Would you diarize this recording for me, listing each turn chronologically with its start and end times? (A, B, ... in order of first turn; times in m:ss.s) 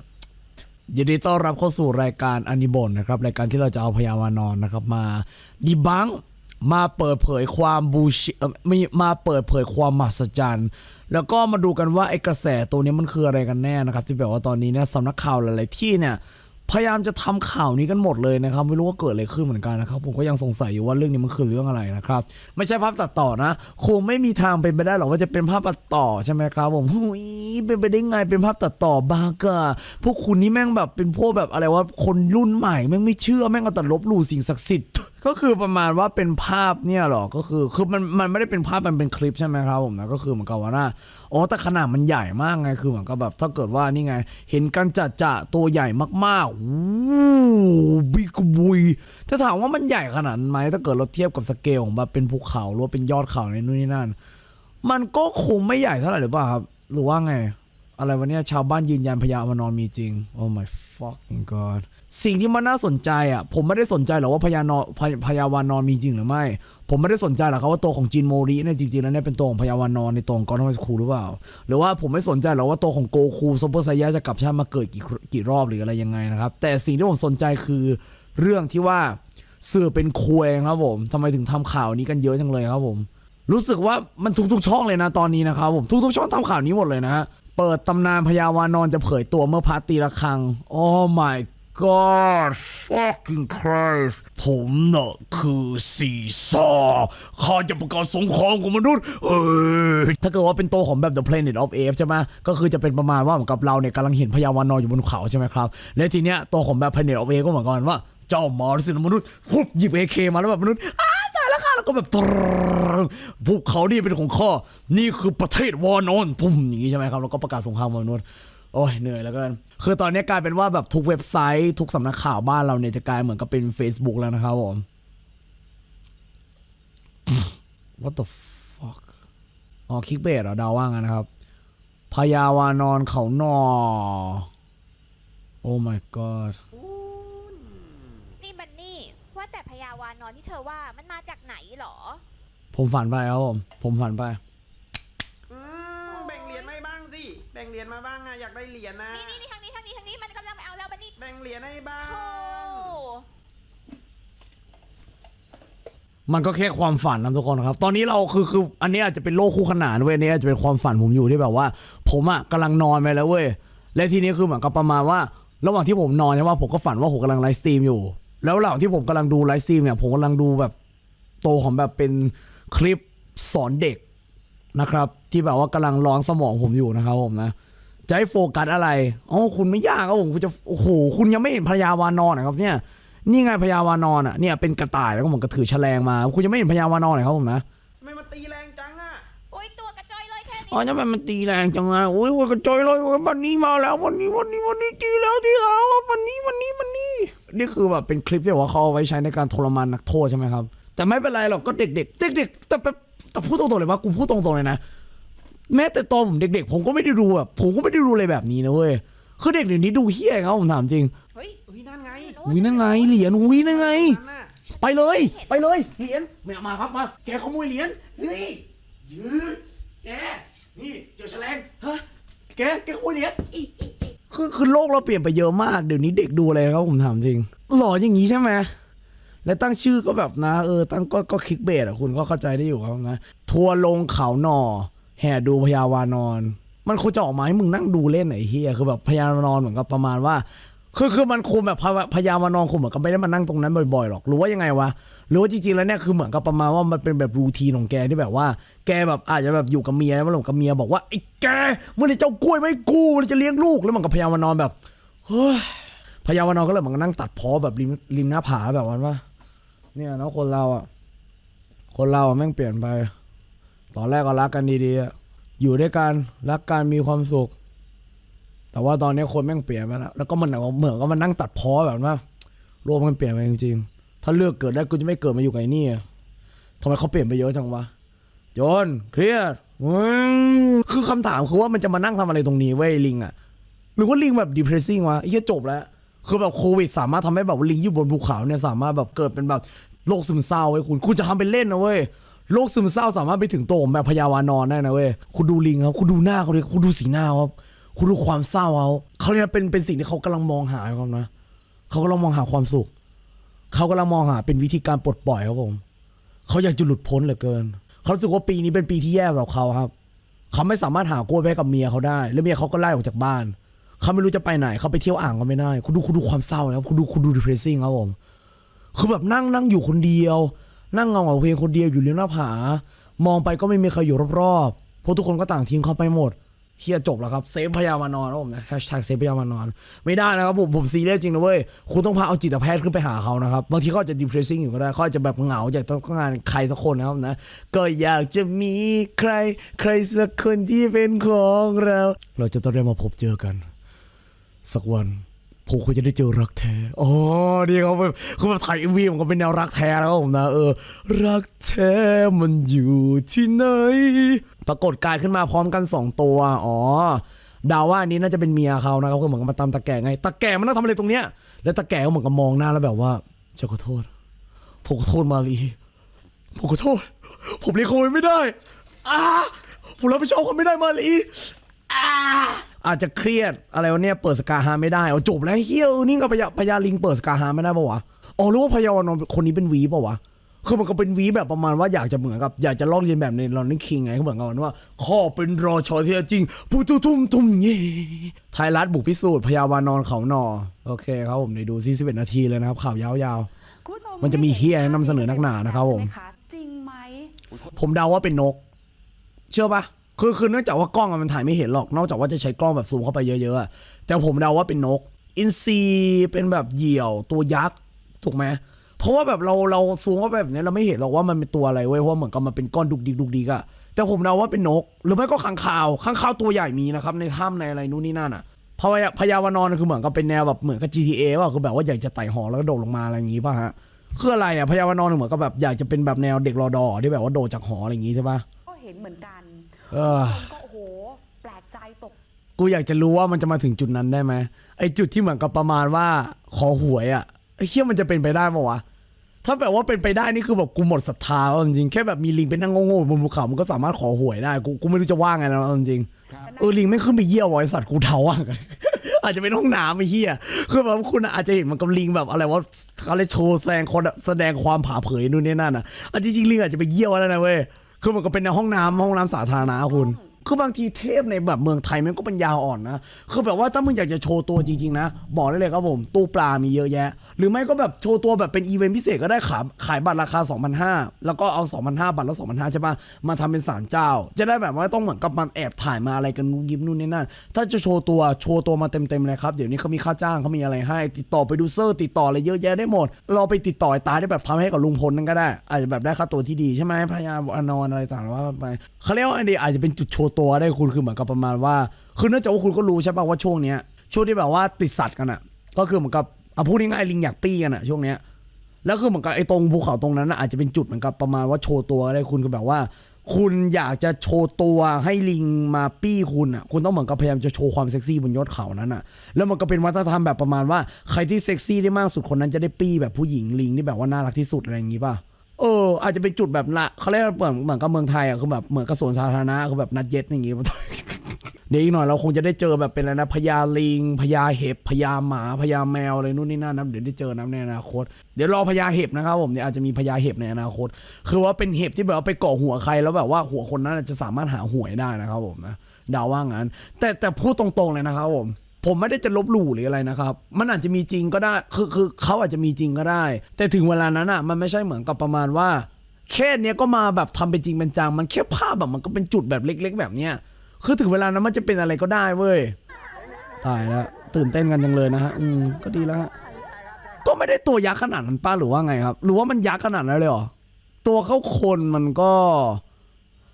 0:00.9-0:54.2 A
0:54.8-2:04.8 A
2:07.3-2:09.1 A
2:09.9-2:11.3 A
2:12.1-2:14.5 A
2:15.6-2:16.6 A
2:16.8-2:18.0 B
2:18.4-2:22.2 C
2:22.7-2:24.4 A
2:25.5-2:29.4 B
2:26.1-2:26.7 C
2:29.1-2:31.2 C
2:31.2-2:33.0 B
2:32.0-2:33.2 C
2:36.3-2:50.7 A
2:51.4-2:54.0 A
2:54.7-2:57.5 A
2:58.1-3:07.6 A
3:08.0-3:09.2 B
3:09.5-3:10.9 C
3:10.6-3:24.8 A
3:25.7-3:31.1 A
3:31.3-3:33.7 C
3:31.7-3:32.4 B
3:32.4-3:34.2 A
3:33.6-3:34.5 B
3:34.6-3:35.6 C
3:34.8-3:48.7 A
3:49.4-4:14.7 A
4:15.3-4:19.2 A
4:19.9-4:20.9 A
4:21.9-4:23.1 A
4:23.9-4:27.5 A
4:28.7-4:32.2 A
4:32.8-4:36.0 A
4:36.8-4:37.9 A
4:38.5-4:43.3 A
4:44.0-5:01.3 A
5:01.9-5:02.9 A
5:03.7-5:05.8 A
5:06.5-5:09.9 A
5:10.5-5:18.2 A
5:18.9-5:43.6 A
5:44.6-6:04.1 A
6:04.8-6:05.8 A
6:06.5-6:33.5 A
6:33.8-6:37.3 D
6:34.2-6:36.1 A
6:37.7-6:38.6 A
6:39.5-7:08.4 A
7:08.7-7:12.2 D
7:09.9-7:10.5 A
7:12.6-7:18.8 A
7:19.4-8:18.2 A
7:26.5-7:27.0 D
7:39.8-7:40.3 D
8:18.8-9:12.7 A
9:13.6-9:16.3 A
9:17.2-9:20.5 A
9:21.0-9:22.8 A